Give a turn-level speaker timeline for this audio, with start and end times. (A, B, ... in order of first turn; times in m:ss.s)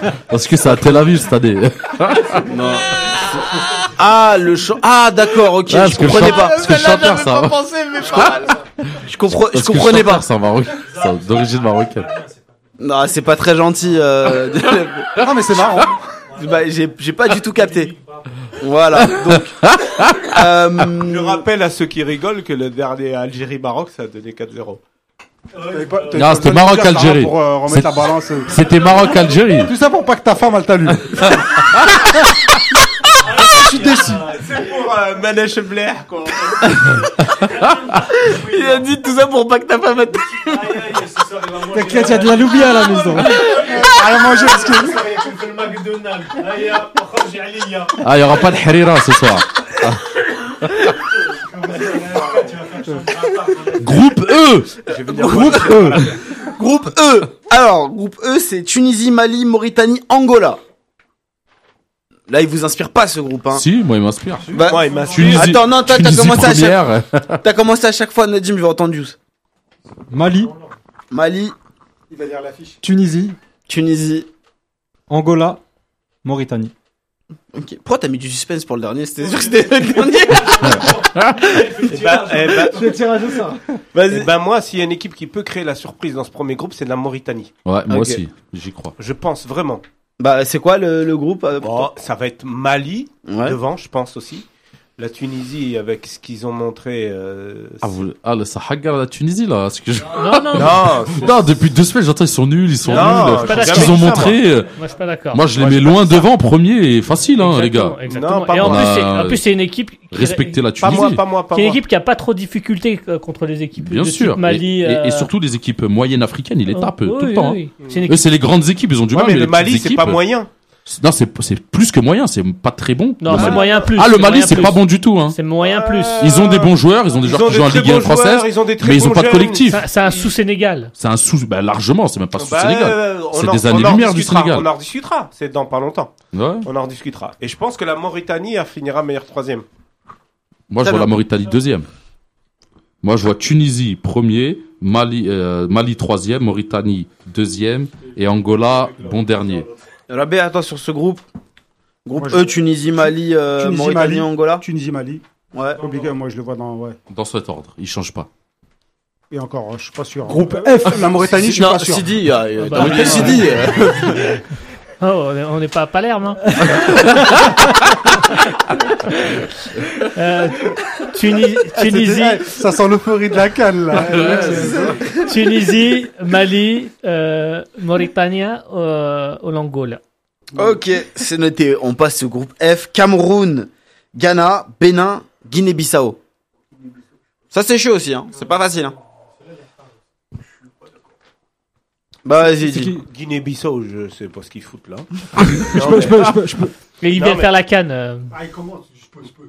0:00.3-0:02.5 A
0:02.4-0:10.3 B
0:05.7-0:09.0 A
0:09.5-0:12.3 A
0:12.8-0:15.2 B
0:15.2-0:16.2 C
0:16.3-0:17.9 B
0:18.5-0:19.6 B
0:19.0-0:20.5 A
0:20.2-0:21.4 B
0:21.0-0:24.8 D
0:25.6-0:28.7 C
0:26.1-0:29.7 A
0:29.7-0:31.4 C
0:33.3-0:34.5 C
0:34.3-0:36.7 D
0:37.6-0:38.2 A
0:38.2-0:41.3 B
0:41.3-0:41.6 D
0:41.6-0:43.5 E
0:43.2-0:43.8 B
0:43.5-0:45.3 C
0:45.1-0:47.9 D
0:48.0-0:50.9 A
0:52.1-0:52.7 D
0:53.6-0:54.8 A
0:54.8-0:56.4 D
0:55.1-1:00.6 B
0:55.5-0:56.1 A
1:02.3-1:03.6 B
1:03.5-1:07.4 A
1:04.5-1:06.8 B
1:04.5-1:05.7 D
1:07.4-1:09.2 B
1:10.1-1:10.6 E
1:11.1-1:11.6 B
1:12.1-1:12.8 C
1:12.8-1:13.4 E
1:13.7-1:14.3 B
1:15.1-1:15.6 E
1:16.2-1:16.7 E
1:17.5-1:21.9 B
1:20.6-1:21.5 A
1:21.6-1:23.0 D
1:22.5-1:23.8 E
1:23.9-1:27.5 D
1:27.6-1:29.0 A
1:27.9-1:28.2 B
1:29.0-1:29.8 D
1:30.2-1:31.9 B
1:31.6-1:34.5 D
1:33.2-1:33.6 B
1:35.0-1:38.0 D
1:37.8-1:44.7 A
1:40.1-1:40.9 F
1:40.5-1:41.6 D
1:42.8-1:45.4 F
1:42.9-1:44.4 D
1:45.3-1:48.0 A
1:45.6-1:46.2 D
1:47.4-1:55.3 F
1:48.1-1:49.0 D
1:48.6-1:49.4 A
1:50.1-1:51.2 A
1:50.8-1:51.8 D
1:53.8-2:00.2 A
1:56.7-1:58.2 F
1:57.8-1:58.1 D
1:59.1-2:00.5 D
2:00.9-2:05.4 A
2:03.2-2:06.3 F
2:03.3-2:03.8 D
2:05.6-2:10.3 D
2:06.2-2:09.9 A
2:09.7-2:10.9 F
2:11.0-2:14.7 A
2:12.3-2:16.1 D
2:16.3-2:16.7 A
2:16.6-2:19.6 D
2:20.7-2:21.9 A
2:20.8-2:21.1 B
2:23.0-2:29.7 A
2:28.5-2:29.8 D
2:30.1-2:31.2 B
2:32.0-2:34.6 B
2:32.2-2:32.5 C
2:33.1-2:35.2 C
2:35.5-2:35.9 B
2:35.8-2:37.0 C
2:37.1-2:38.3 A
2:39.3-2:42.1 C
2:40.3-2:41.4 E
2:41.4-2:44.4 B
2:42.6-2:43.4 F
2:42.8-2:43.4 C
2:45.0-2:47.4 F
2:47.0-2:47.5 E
2:48.1-2:52.5 F
2:51.7-2:55.2 C
2:54.0-2:54.9 A
2:54.9-2:55.2 B
2:55.0-3:00.0 F
3:00.6-3:00.8 C
3:00.6-3:06.2 B
3:07.5-3:09.0 B
3:12.2-3:13.0 B
3:12.6-3:13.0 E
3:13.0-3:15.1 D
3:15.5-3:16.7 E
3:15.7-3:16.3 D
3:17.0-3:18.3 F
3:17.1-3:17.5 D
3:18.4-3:19.3 C